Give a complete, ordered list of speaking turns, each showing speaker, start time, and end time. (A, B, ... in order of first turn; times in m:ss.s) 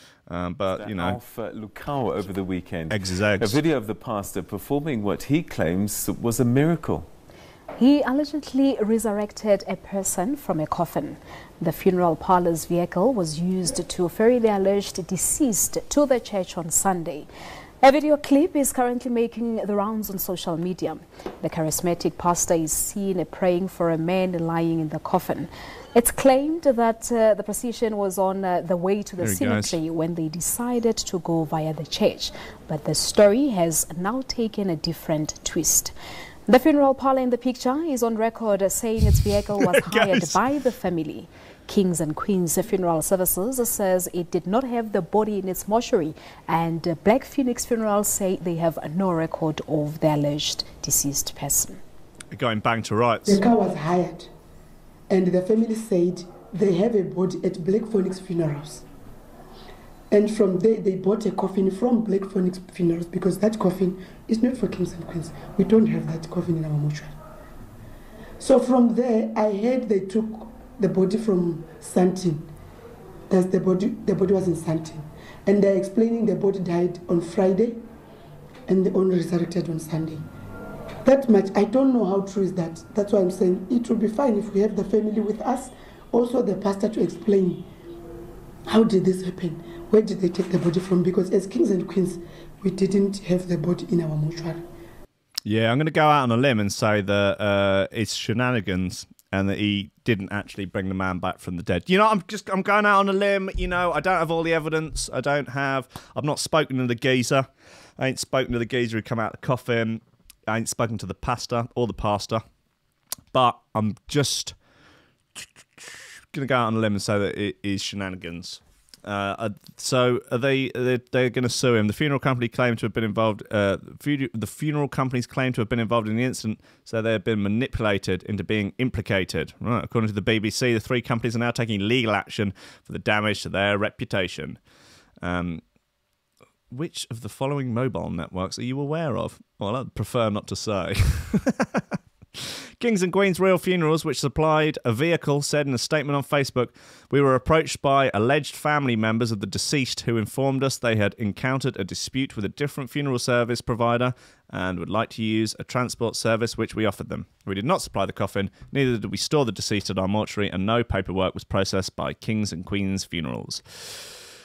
0:00.3-0:01.2 A
0:00.7-0:07.1 B
0:02.9-0:03.6 A
0:07.8-0:17.3 C
0:17.8-0:35.9 C
0:29.2-0:29.8 A
0:36.5-0:51.8 C
0:39.6-0:40.4 A
0:52.3-0:53.4 A
0:53.2-0:54.3 D
0:55.1-0:58.8 D
1:00.1-1:07.1 D
1:08.4-1:12.5 D
1:13.3-1:17.8 D
1:18.7-1:20.2 D
1:21.0-1:27.7 D
1:28.7-1:34.7 D
1:35.4-1:52.4 A
1:53.3-1:54.6 A
1:55.4-2:14.6 A
2:15.2-2:15.6 A
2:16.7-2:21.8 A
2:22.4-2:44.1 A